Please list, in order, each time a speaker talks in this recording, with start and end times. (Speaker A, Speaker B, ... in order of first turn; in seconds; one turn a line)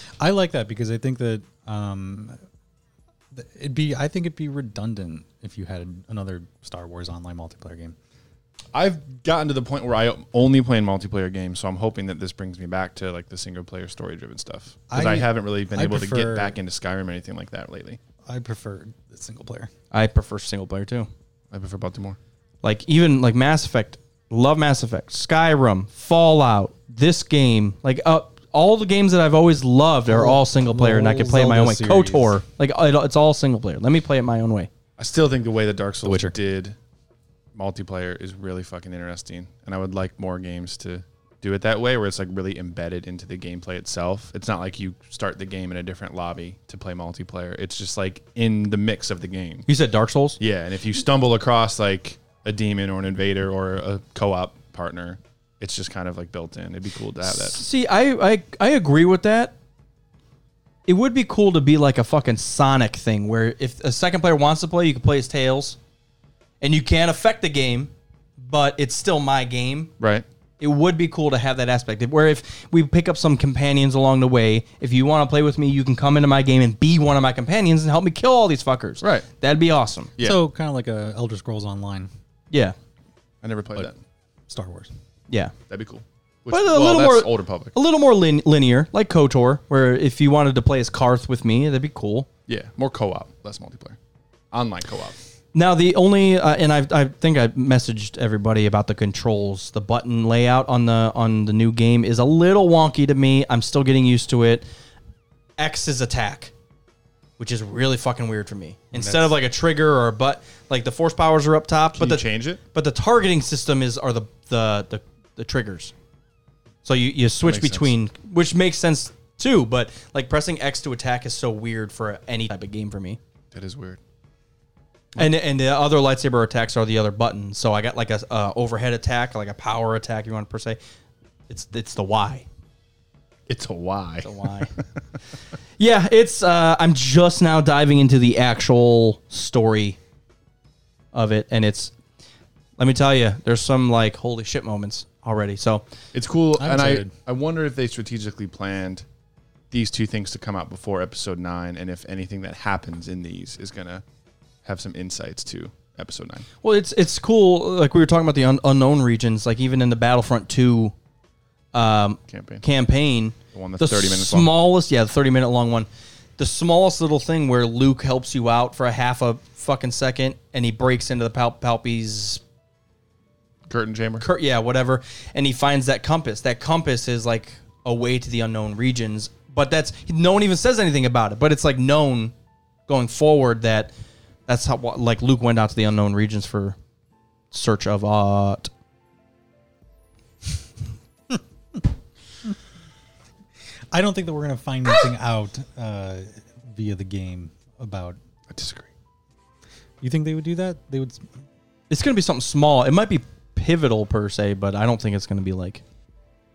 Speaker A: 0.2-2.4
Speaker A: 3.3-8.0
Speaker B: 8.7-18.0
Speaker A: 14.9-16.6
Speaker A: 18.2-19.7
Speaker C: 19.9-21.1
Speaker B: 21.5-22.2
Speaker C: 22.6-34.7
Speaker A: 30.1-32.4
Speaker B: 35.0-36.8
Speaker A: 36.0-36.4
Speaker B: 37.5-49.7
Speaker C: 49.7-50.4
Speaker B: 50.4-57.6
Speaker C: 57.2-59.5
Speaker C: 60.9-65.8
Speaker C: 66.6-69.9
Speaker B: 70.0-70.2
Speaker C: 70.6-80.1
Speaker B: 79.0-79.3
Speaker A: 80.2-82.1
Speaker C: 82.5-82.8
Speaker B: 83.4-84.0
Speaker A: 84.5-84.9
Speaker C: 85.3-85.5
Speaker B: 85.7-87.7
Speaker C: 86.5-92.3
Speaker B: 92.5-94.0
Speaker B: 94.5-95.2
Speaker C: 95.5-104.7
Speaker C: 105.6-106.5
Speaker C: 107.4-115.9
Speaker B: 111.9-112.6
Speaker C: 116.8-123.2
Speaker B: 117.4-117.9
Speaker B: 123.5-124.0
Speaker C: 125.2-130.8
Speaker C: 131.5-132.4
Speaker B: 133.5-134.8
Speaker C: 134.2-134.7
Speaker C: 135.8-140.0
Speaker C: 141.1-141.9
Speaker C: 142.8-145.8
Speaker B: 146.1-149.1
Speaker A: 146.6-147.1
Speaker B: 149.7-154.0
Speaker B: 154.6-156.5
Speaker C: 156.6-160.9
Speaker C: 161.7-172.4
Speaker B: 162.3-162.7
Speaker B: 163.5-164.5
Speaker B: 173.7-174.2
Speaker C: 174.2-182.3
Speaker C: 182.9-183.9
Speaker C: 184.5-186.8
Speaker C: 187.5-188.7
Speaker A: 193.9-198.2
Speaker B: 198.5-198.9
Speaker A: 200.0-201.2
Speaker C: 201.9-205.8